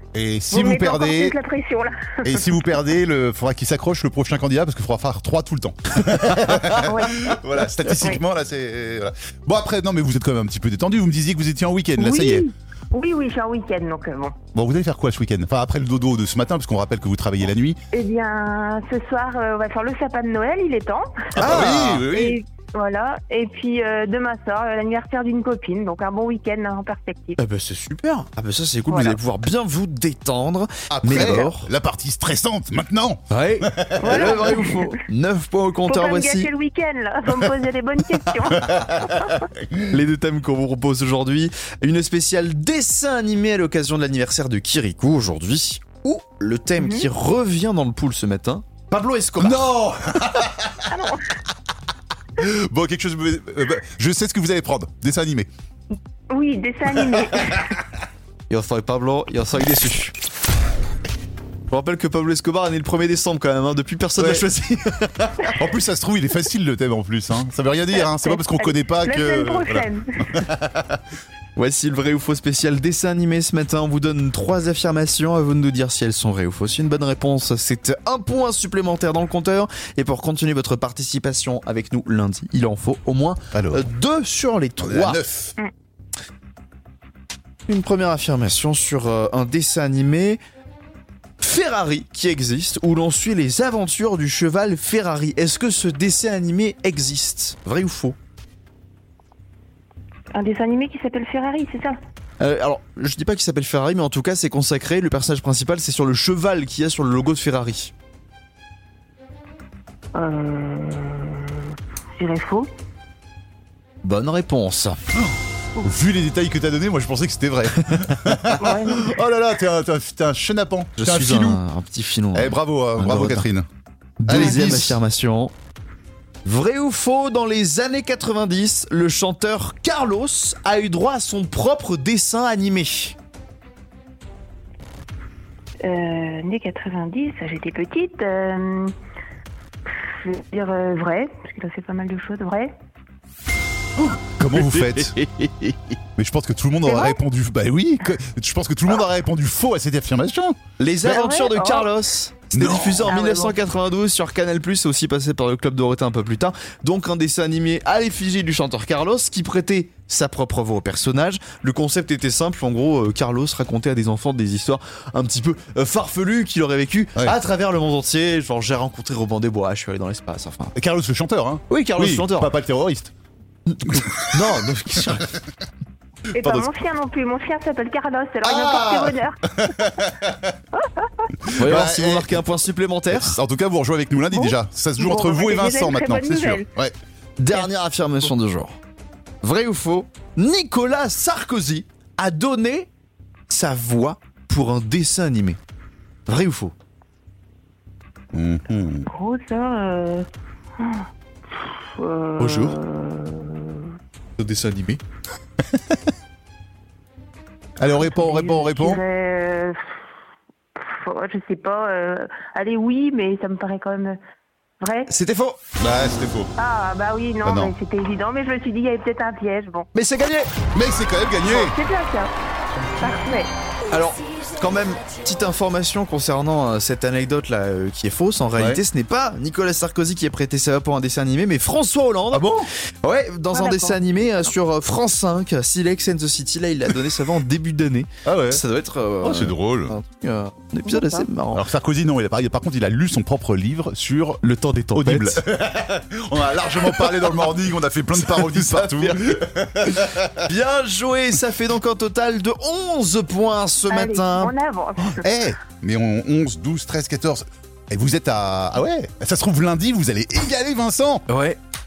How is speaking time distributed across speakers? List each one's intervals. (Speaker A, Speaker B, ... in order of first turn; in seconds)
Speaker A: 0.1-1.4, 2.2-12.5, 14.6-17.8, 21.4-22.4, 30.9-34.5, 38.7-39.0, 49.4-50.8, 52.4-55.5, 64.2-64.5, 65.5-71.0, 83.5-83.9, 84.8-85.5, 115.2-121.6, 122.3-123.7, 124.3-125.0, 144.0-145.1, 146.2-150.6, 152.5-153.2, 170.8-173.1, 173.9-174.5, 176.4-176.7, 178.4-180.5, 181.5-182.4, 183.1-186.9, 198.3-199.1, 207.8-209.0, 215.8-216.5, 217.4-217.7, 220.7-221.8, 228.6-228.8, 232.3-232.7, 238.2-238.6, 239.2-239.9, 241.5-244.4, 244.9-250.5, 255.2-261.2
Speaker B: 0.5-2.5, 6.8-7.3, 12.0-14.4, 17.9-21.3, 22.0-27.4, 28.9-29.2, 34.0-35.0, 35.9-39.5, 46.8-47.1, 50.9-51.3, 56.3-57.7, 68.0-70.4, 100.3-102.0, 110.2-112.7, 118.6-119.2, 135.8-138.9, 140.1-142.7, 146.8-147.2, 151.1-151.9, 153.1-153.6, 176.3-179.4, 180.8-181.3, 184.3-186.7, 199.1-200.3, 200.8-203.9, 208.0-209.8, 210.8-214.2, 214.8-215.1, 216.6-219.9, 221.4-222.3, 223.0-223.5, 233.5-234.5, 240.9-241.3, 253.9-255.4
Speaker C: 21.4-22.1, 27.4-31.7, 33.3-36.5, 39.8-49.7, 58.5-60.1, 61.7-65.5, 71.6-85.2, 87.7-90.4, 91.4-98.2, 102.4-107.9, 114.0-115.0, 117.9-118.5, 121.0-123.5, 124.2-125.5, 126.5-133.2, 144.5-145.8, 150.8-170.7, 171.7-172.5, 173.7-175.3, 181.6-183.4, 187.4-188.8, 189.4-192.9, 193.5-195.6, 196.3-196.7, 202.4-202.8, 204.4-205.0, 215.1-215.6, 219.9-220.5, 223.9-241.7, 244.4-245.4, 248.2-249.4, 250.4-254.5, 261.3-261.6